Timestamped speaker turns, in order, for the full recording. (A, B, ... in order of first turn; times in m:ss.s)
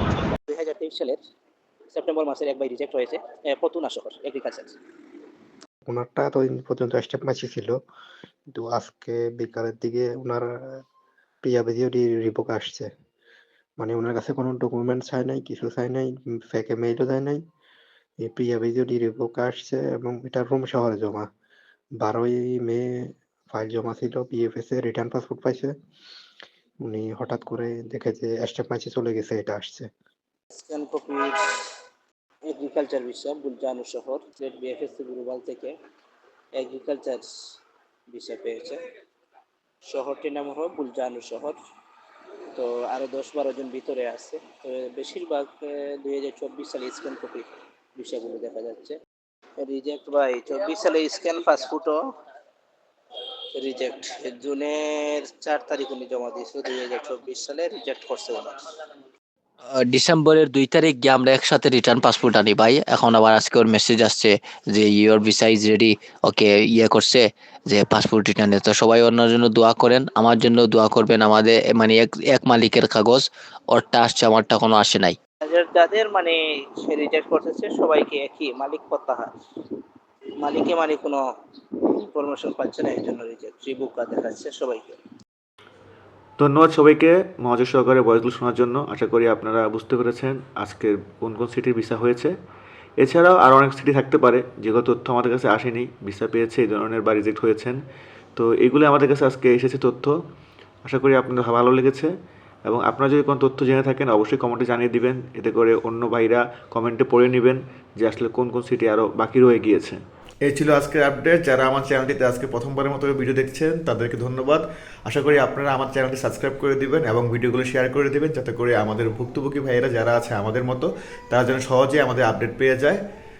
0:00.4-0:01.2 A
0:01.9-0:04.8 A
0:05.8-0:07.8 B
0:08.5-0:10.8 B
0:11.4-0:12.9 B
0:13.8-0:17.4 B
0:18.2-0:21.3 B
0:22.0-0:25.7 B
0:26.8-0:29.9 B
0:30.6-0:31.4 A
0:32.5-0:35.7 A
0:36.6-0:37.3 A
0:38.1-0:38.8 A
0:39.8-0:41.6 A
0:42.5-0:49.0 A
0:49.6-0:52.0 A
0:53.5-0:58.6 A
0:59.8-1:15.2 C
1:15.4-1:19.3 A
1:20.4-1:21.2 A
1:21.8-1:25.0 A
1:26.4-1:32.3 D
1:33.0-1:37.8 D
1:38.4-1:40.1 D
1:40.8-1:42.1 D
1:42.6-1:50.0 D
1:50.5-2:03.0 D